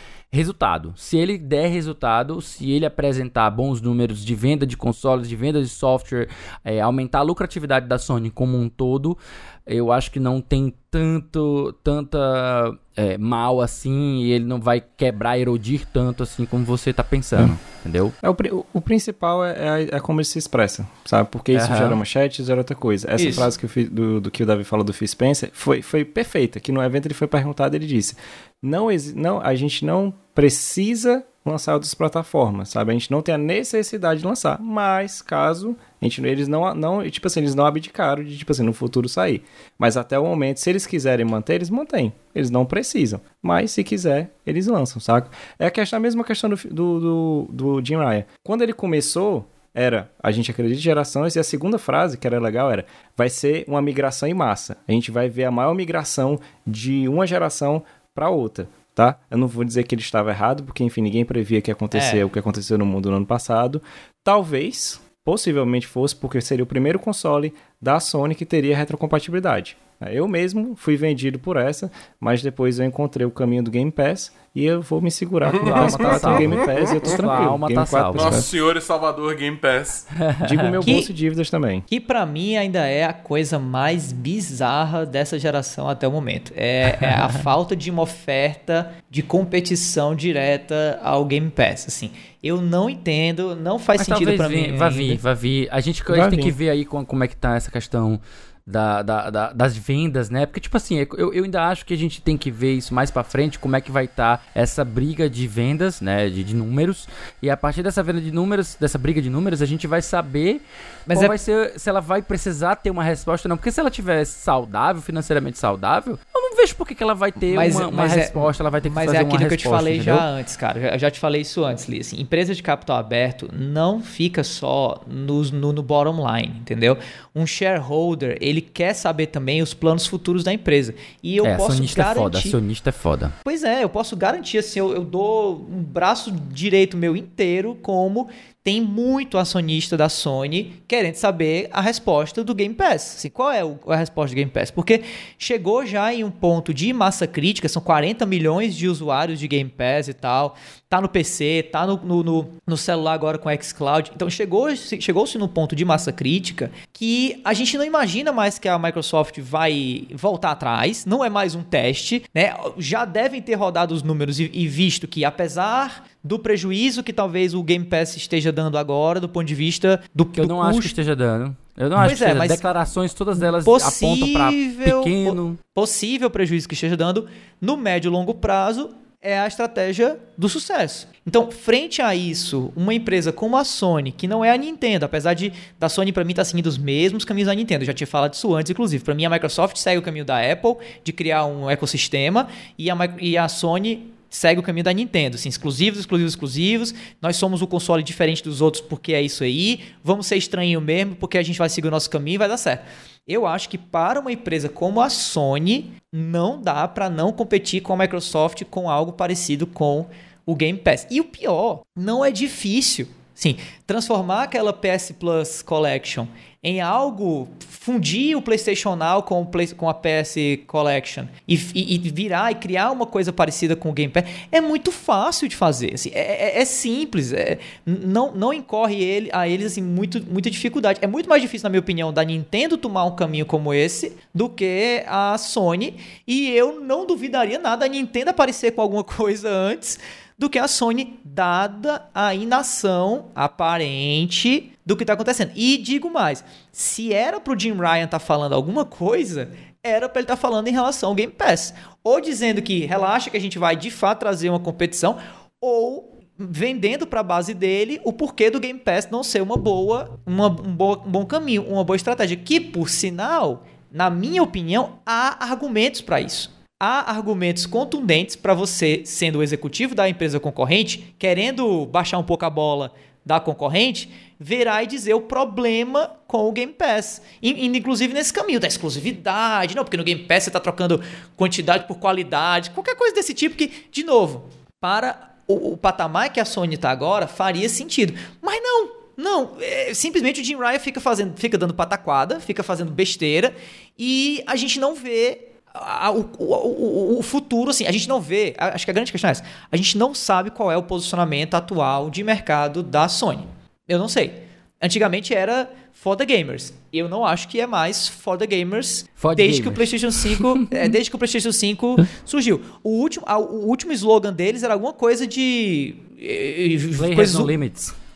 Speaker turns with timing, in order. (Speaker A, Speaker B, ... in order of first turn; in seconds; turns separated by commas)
Speaker A: 0.3-18.1, Speaker B: 18.2-78.5, Speaker A: 21.5-22.0, Speaker C: 23.2-23.5, Speaker C: 61.9-62.2, Speaker D: 75.4-77.2, Speaker A: 75.6-78.5, Speaker D: 78.1-80.1, Speaker A: 80.1-80.9, Speaker B: 80.4-81.9, Speaker C: 80.8-81.1, Speaker C: 81.9-95.2, Speaker A: 94.0-120.3, Speaker B: 96.1-96.5, Speaker C: 111.1-111.4, Speaker C: 117.5-132.6, Speaker A: 131.4-133.3, Speaker C: 133.4-170.9, Speaker A: 170.4-175.6, Speaker C: 172.0-172.6, Speaker C: 173.4-317.5, Speaker A: 309.2-310.9, Speaker A: 317.0-317.9